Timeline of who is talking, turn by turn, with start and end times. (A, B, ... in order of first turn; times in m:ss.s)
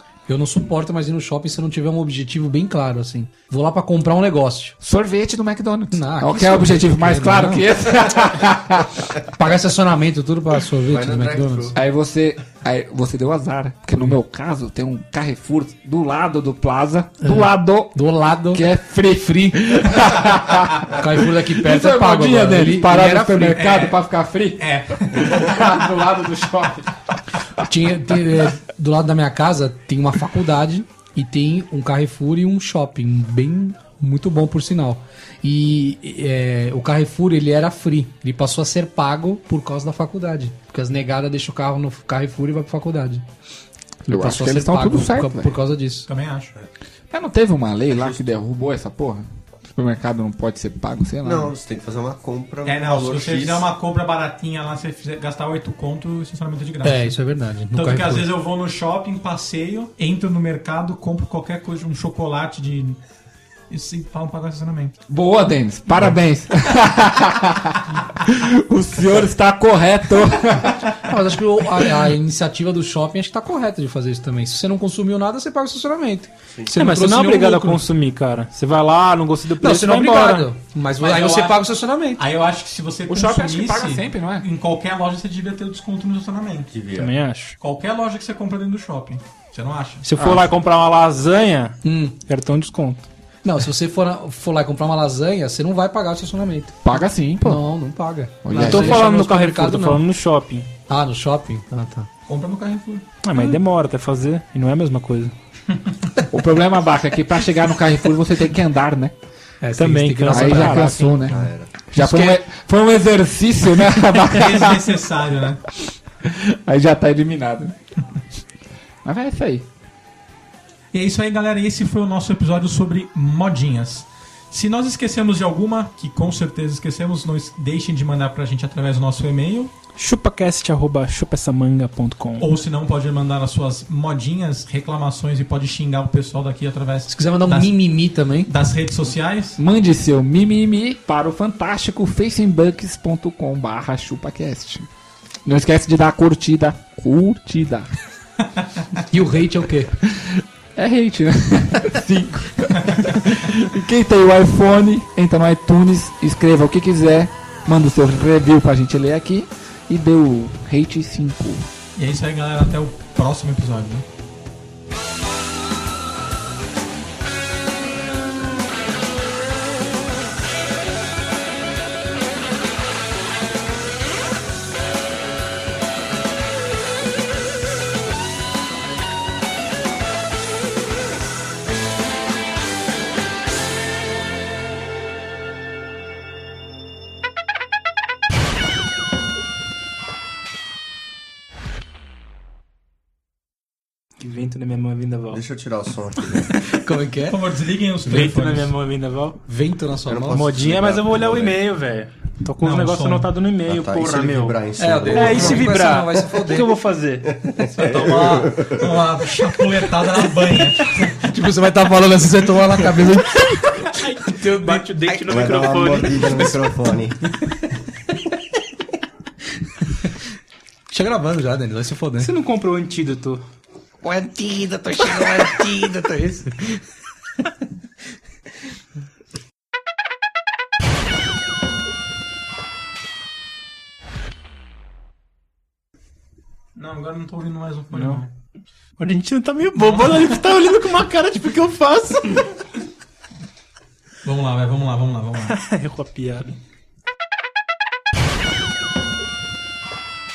0:00.3-0:04.8 A
0:04.8-0:09.2 B
0:05.9-0:07.7 A
0:09.3-0:11.7 A
0:10.9-0:11.8 C
0:11.7-0:18.0 B
0:17.2-0:18.6 A
0:18.5-0:27.0 B
0:19.4-0:19.7 A
0:20.9-0:23.6 A
0:23.5-0:24.0 D
0:24.6-0:25.4 D
0:27.6-0:43.2 A
0:44.1-0:46.1 A
0:44.1-0:45.5 B
0:46.1-0:46.5 D
0:47.1-0:51.5 B
0:47.9-0:48.2 C
0:51.2-0:53.7 C
0:52.6-0:57.1 D
0:56.8-0:58.3 A
0:57.7-1:03.0 D
1:03.7-1:04.9 D
1:05.1-1:11.0 B
1:07.9-1:08.2 D
1:11.1-1:17.8 A
1:16.7-1:20.5 E
1:19.6-1:22.2 A
1:21.0-1:21.6 D
1:22.2-1:26.8 D
1:23.1-1:24.5 B
1:26.7-1:27.1 C
1:27.0-1:27.6 E
1:27.6-1:30.1 D
1:30.0-1:33.0 E
1:30.2-1:30.5 B
1:31.8-1:32.2 A
1:33.4-1:40.0 A
1:36.8-1:37.7 B
1:38.4-1:39.0 B
1:38.5-1:40.7 E
1:40.9-1:42.1 A
1:42.3-1:43.1 D
1:43.2-1:45.3 E
1:46.3-1:49.1 B
1:49.6-1:52.4 A
1:49.8-1:51.0 E
1:50.3-1:55.0 B
1:51.2-1:51.7 C
1:54.2-1:55.6 D
1:56.2-1:57.7 B
1:59.0-1:59.6 B
2:00.9-2:09.7 D
2:10.0-2:12.5 E
2:12.4-2:17.8 D
2:17.1-2:18.5 A
2:18.5-2:19.6 D
2:19.6-2:24.9 B
2:25.4-2:27.9 B
2:29.1-2:29.9 A
2:30.1-2:41.7 B
2:42.0-2:44.0 D
3:14.2-3:15.4 E
3:15.3-3:16.5 C
3:16.7-3:17.4 A
3:17.3-3:18.7 D
3:18.0-3:19.4 E
3:19.4-3:20.5 A
3:20.1-3:21.6 C
3:20.3-3:27.5 E
3:22.6-3:23.3 D
3:23.6-3:25.7 C
3:24.8-3:26.7 A
3:27.2-3:29.0 C
3:27.7-3:31.0 D
3:31.0-3:34.9 A
3:33.9-3:36.6 E
3:35.2-3:37.2 C
3:40.9-3:42.3 A
3:42.2-3:43.4 E
3:44.0-3:46.5 A
3:56.7-3:58.3 D
3:57.9-3:58.2 E
3:59.0-4:02.4 E
3:59.8-4:00.3 D
4:04.2-4:05.6 D
4:05.5-4:06.5 E